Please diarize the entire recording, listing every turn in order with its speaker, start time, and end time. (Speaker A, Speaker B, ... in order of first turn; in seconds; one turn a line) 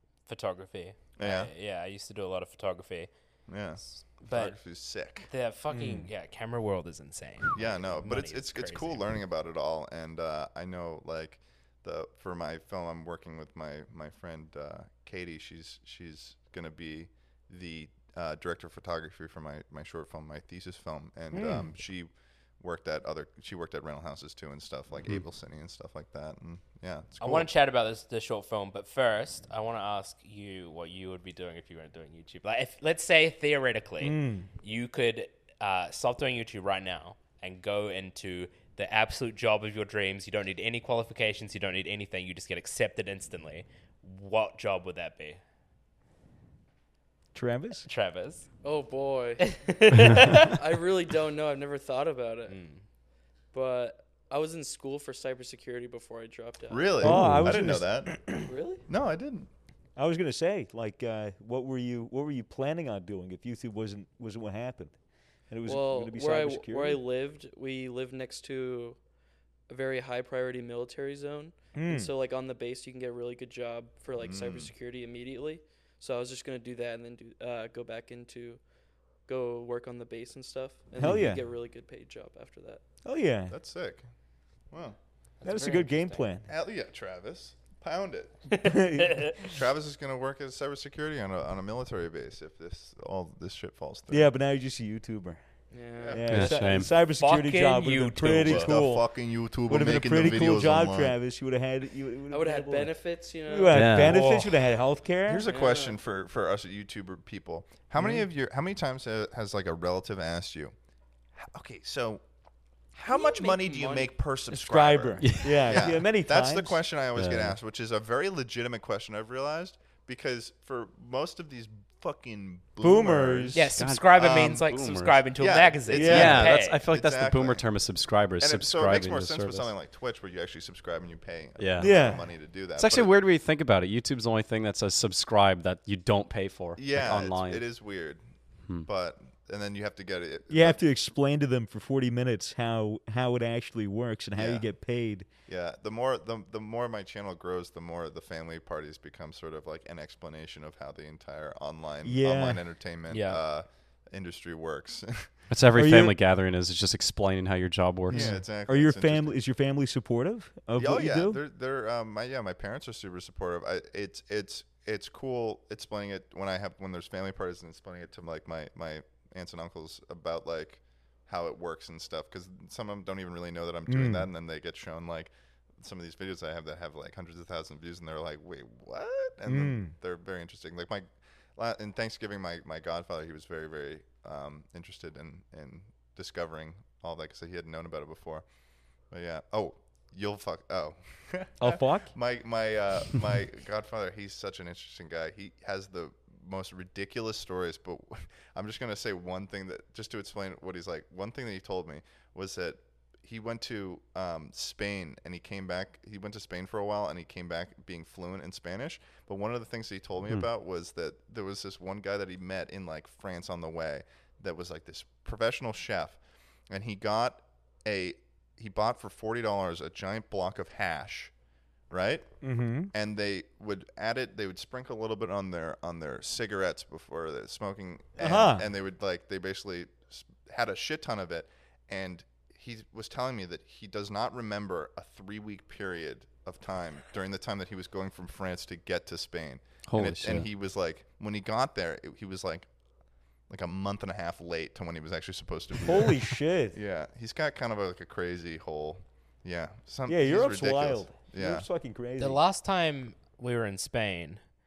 Speaker A: 0.3-3.1
Speaker B: 1.2-1.5
Speaker B: 3.5-5.3
Speaker A: 3.9-4.6
Speaker A: 5.3-9.1
Speaker C: 5.7-6.1
Speaker B: 7.5-27.5
Speaker C: 21.3-21.7
Speaker A: 27.2-45.4
Speaker C: 34.0-34.5
Speaker C: 47.3-47.9
Speaker A: 47.9-48.5
Speaker D: 48.6-52.6
Speaker A: 49.5-50.5
Speaker A: 52.5-52.8
Speaker D: 53.5-57.0
Speaker B: 56.7-59.5
Speaker C: 57.0-58.4
Speaker E: 57.0-57.7
Speaker D: 58.3-58.9
Speaker C: 60.0-65.0
Speaker C: 65.5-67.0
Speaker D: 65.7-69.0
Speaker D: 69.7-78.6
Speaker C: 71.8-72.1
Speaker B: 74.2-74.7
Speaker D: 79.3-82.8
Speaker C: 81.0-81.4
Speaker C: 83.0-83.6
Speaker B: 83.5-84.1
Speaker B: 84.7-85.0
Speaker A: 85.4-86.2
Speaker C: 85.4-86.5
Speaker B: 86.5-88.6
Speaker C: 88.6-89.4
Speaker A: 89.0-89.3
Speaker B: 89.4-94.3
Speaker C: 94.1-95.4
Speaker D: 95.7-96.4
Speaker B: 96.0-96.5
Speaker C: 96.1-99.1
Speaker E: 96.3-96.9
Speaker A: 96.3-98.8
Speaker B: 98.4-101.2
Speaker C: 99.7-102.9
Speaker D: 102.3-104.2
Speaker C: 103.5-105.5
Speaker E: 103.7-104.3
Speaker B: 105.3-110.7
Speaker D: 105.5-106.0
Speaker C: 108.0-108.3
Speaker B: 111.4-112.2
Speaker B: 113.0-124.7
Speaker D: 113.1-114.1
Speaker C: 114.5-116.8
Speaker E: 115.2-115.6
Speaker E: 117.2-117.6
Speaker C: 122.8-123.6
Speaker A: 123.5-126.8
Speaker E: 123.8-125.3
Speaker B: 125.4-127.7
Speaker C: 125.9-126.4
Speaker E: 126.0-129.7
Speaker B: 128.4-133.2
Speaker E: 131.6-132.1
Speaker C: 131.8-132.2
Speaker E: 132.8-137.6
Speaker B: 136.8-138.2
Speaker B: 138.8-140.8
Speaker C: 140.5-145.3
Speaker B: 144.4-144.7
Speaker B: 145.5-155.4
Speaker C: 152.0-152.6
Speaker A: 153.1-153.4
Speaker E: 155.5-158.4
Speaker C: 155.8-156.2
Speaker B: 158.1-159.3
Speaker C: 158.1-161.4
Speaker B: 160.8-188.4
Speaker C: 173.9-174.3
Speaker C: 179.4-179.9
Speaker B: 189.1-216.2
Speaker C: 191.6-192.1
Speaker B: 216.7-221.3
Speaker B: 221.9-222.3
Speaker C: 222.4-222.9
Speaker B: 222.9-242.7
Speaker C: 228.2-228.7
Speaker E: 239.9-240.5
Speaker B: 243.5-251.7
Speaker C: 245.7-246.8
Speaker C: 250.1-252.4
Speaker A: 252.2-254.4